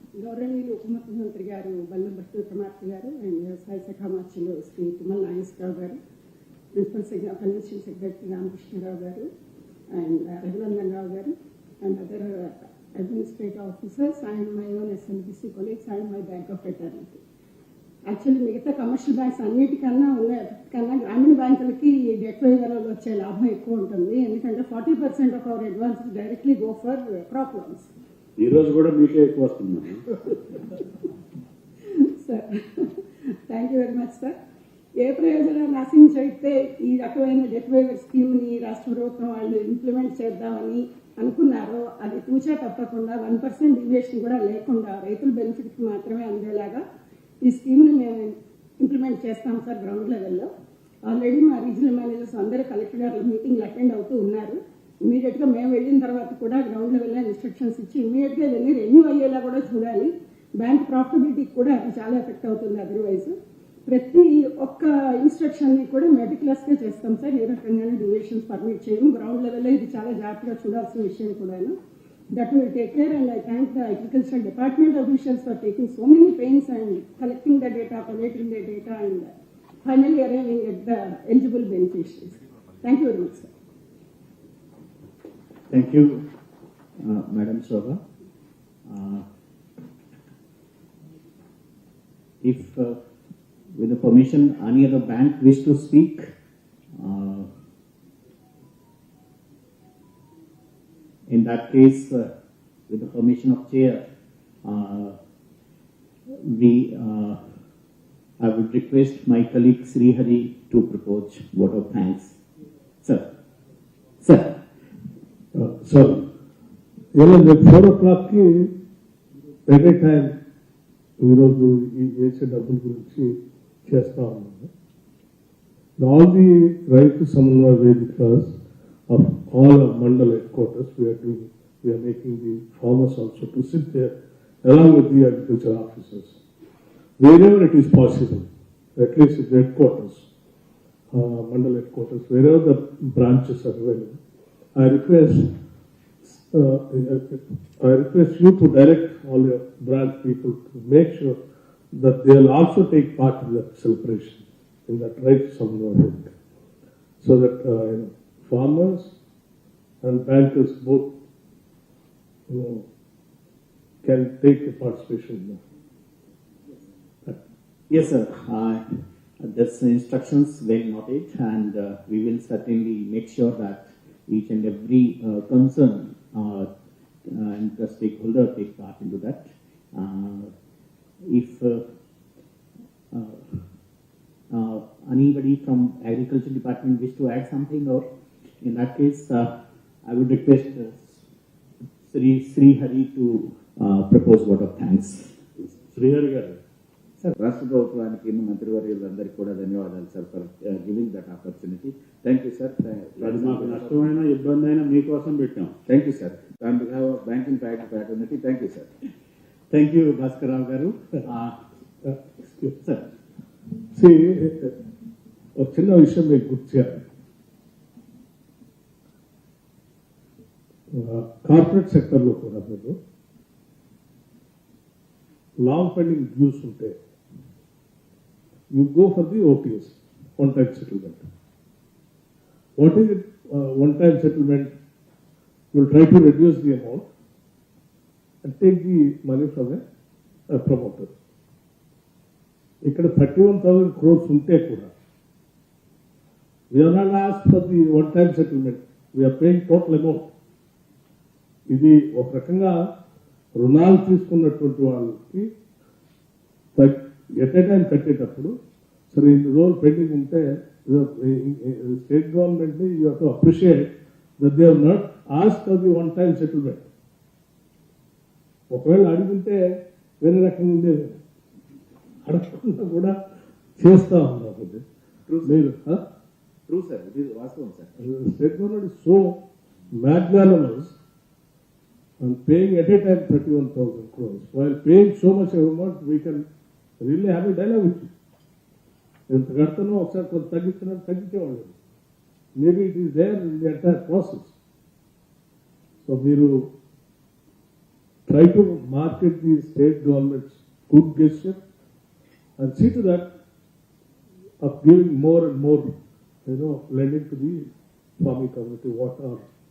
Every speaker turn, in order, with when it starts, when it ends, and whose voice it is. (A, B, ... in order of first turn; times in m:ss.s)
0:00.2-0:06.0 A
0:06.8-0:09.3 A
0:09.9-0:17.2 A
0:18.1-0:27.9 A
0:28.4-0:30.0 B
0:31.8-0:34.3 A
0:35.0-0:46.8 A
0:47.4-0:50.5 A
0:51.1-1:03.4 A
1:03.9-1:11.8 A
1:12.3-1:19.3 A
1:19.8-1:23.5 A
1:25.7-1:26.2 C
1:27.0-1:28.0 C
1:28.9-1:29.3 C
1:32.4-1:33.0 C
1:33.8-1:36.3 C
1:37.0-1:37.5 C
1:41.3-1:42.3 C
1:42.9-1:44.0 C
1:44.6-1:45.2 C
1:46.3-1:47.4 C
1:48.4-1:52.4 C
1:54.2-1:54.6 C
1:55.5-1:56.3 D
1:57.1-1:58.8 D
1:59.7-2:00.4 D
2:01.2-2:04.7 D
2:06.0-2:08.6 D
2:09.1-2:16.4 D
2:17.2-2:20.3 D
2:21.1-2:24.2 D
2:24.8-2:25.5 D
2:26.2-2:31.4 D
2:31.9-2:36.4 D
2:37.2-2:39.1 D
2:40.0-2:41.1 D
2:42.5-2:42.9 D
2:44.0-2:45.6 D
2:47.9-2:56.7 C
2:57.3-3:00.5 C
3:01.2-3:01.8 C
3:03.1-3:03.6 C
3:04.5-3:08.0 C
3:08.6-3:09.5 C
3:10.0-3:11.2 C
3:12.1-3:15.3 C
3:15.8-3:16.6 B
3:17.4-3:24.1 E
3:23.2-3:25.8 B
3:25.9-3:28.9 E
3:29.7-3:31.6 C
3:32.0-3:32.7 D
3:33.9-3:34.8 D
3:35.6-3:37.0 D
3:40.9-3:43.0 D
3:45.6-3:47.0 D
3:48.7-3:51.2 D
3:52.8-3:54.7 D
3:55.7-3:57.1 D
3:58.4-3:59.8 D
4:00.5-4:01.1 D
4:02.8-4:04.9 D
4:06.7-4:10.3 D
4:11.7-4:12.8 D
4:13.6-4:15.5 D
4:16.8-4:18.6 D
4:19.1-4:26.9 D
4:28.7-4:31.2 D
4:32.2-4:33.2 D
4:33.8-4:34.8 D
4:35.3-4:35.6 E
4:35.4-4:36.0 D
4:36.7-4:38.0 E
4:38.0-4:39.4 D
4:39.9-4:40.9 D
4:42.2-4:46.4 D
4:47.0-4:48.1 D
4:49.3-4:51.8 D
4:52.6-4:54.5 D
4:56.0-4:56.7 D
4:58.3-5:01.6 D
5:02.6-5:03.3 D
5:04.6-5:05.9 D
5:06.5-5:07.7 D
5:08.2-5:09.4 D